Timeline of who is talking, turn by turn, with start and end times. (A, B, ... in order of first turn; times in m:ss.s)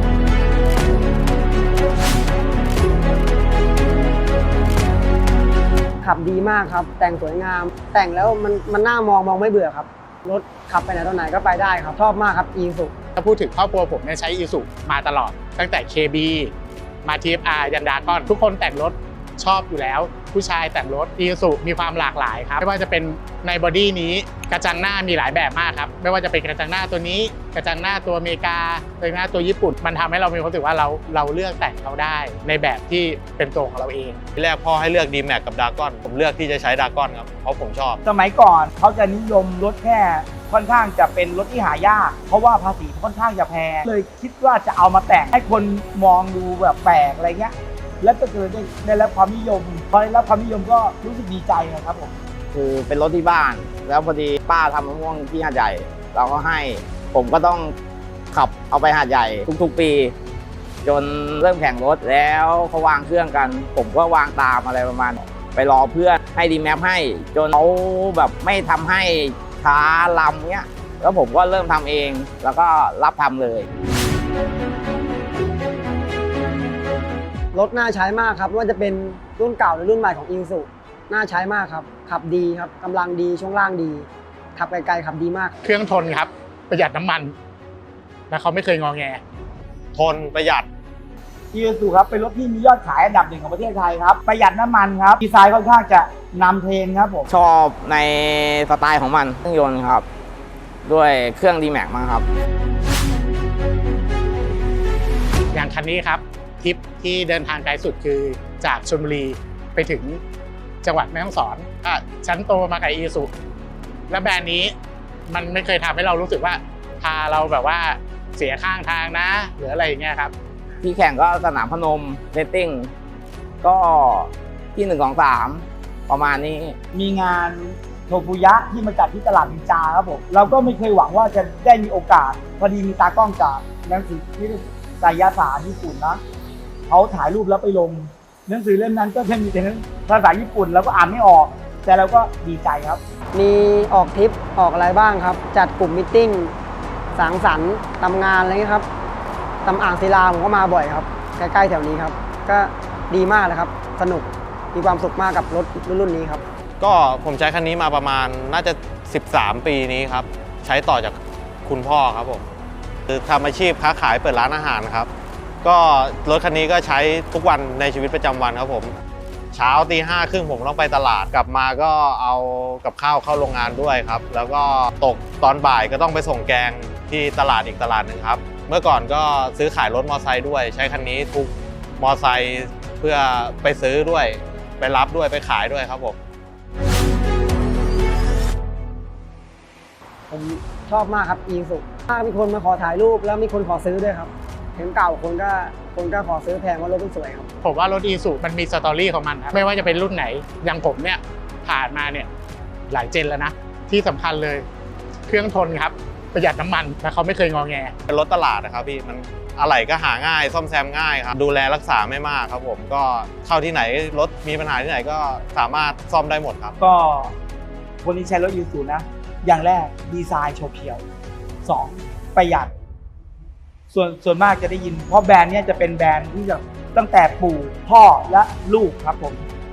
0:06.0-0:12.9 A
0:13.2-0:16.5 B
0:17.0-0:34.2 B
0:34.4-0:38.0 C
0:38.0-0:52.1 D
0:52.5-0:57.7 E
0:58.3-1:00.1 E
1:00.8-1:13.7 E
1:17.5-1:25.6 A
1:25.6-1:27.3 B
1:28.3-1:29.2 B
1:29.9-1:30.6 C
1:31.5-1:37.3 D
1:37.3-1:40.0 E
1:40.8-1:42.3 E
1:45.5-1:50.2 B
1:50.8-1:53.3 B
1:54.1-1:54.7 B
1:55.3-2:00.3 B
2:00.8-2:02.9 E
2:03.6-2:06.8 E
2:06.9-2:16.2 D
2:16.9-2:23.0 D
2:23.3-2:26.5 A
2:27.1-2:28.9 A
2:29.6-2:36.4 A
2:36.8-2:42.5 C
2:43.1-2:45.1 C
2:45.6-2:48.9 C
2:49.5-3:06.2 C
3:10.3-3:17.5 A
3:17.6-3:22.3 B
3:22.9-3:24.6 B
3:25.3-3:27.9 B
3:28.1-3:36.7 C
3:36.8-3:37.3 D
3:38.0-3:41.0 D
3:41.6-3:42.7 D
3:43.9-3:49.4 D